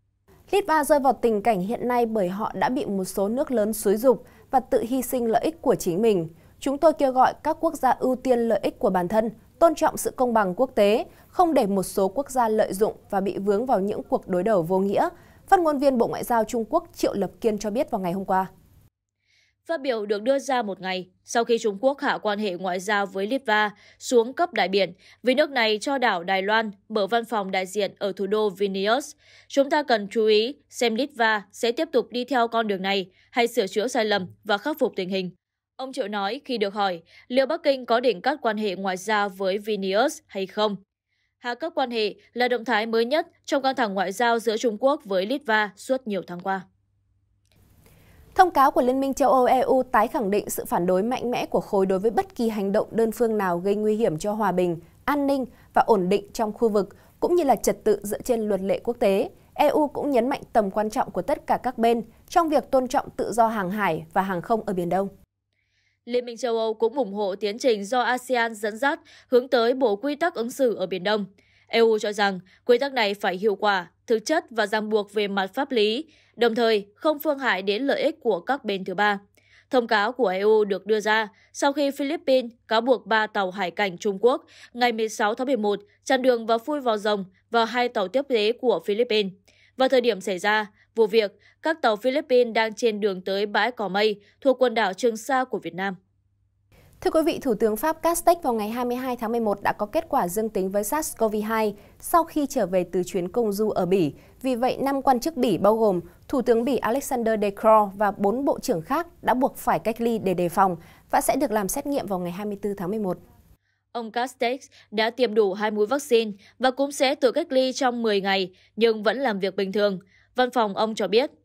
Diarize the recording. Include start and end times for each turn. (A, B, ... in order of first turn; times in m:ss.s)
0:00.5-0:18.5 A
0:19.7-0:40.8 B
0:41.4-0:46.6 B
0:48.4-1:05.1 A
1:06.1-1:19.2 B
1:19.7-1:36.0 B
1:37.0-1:53.2 A
1:53.9-2:01.3 B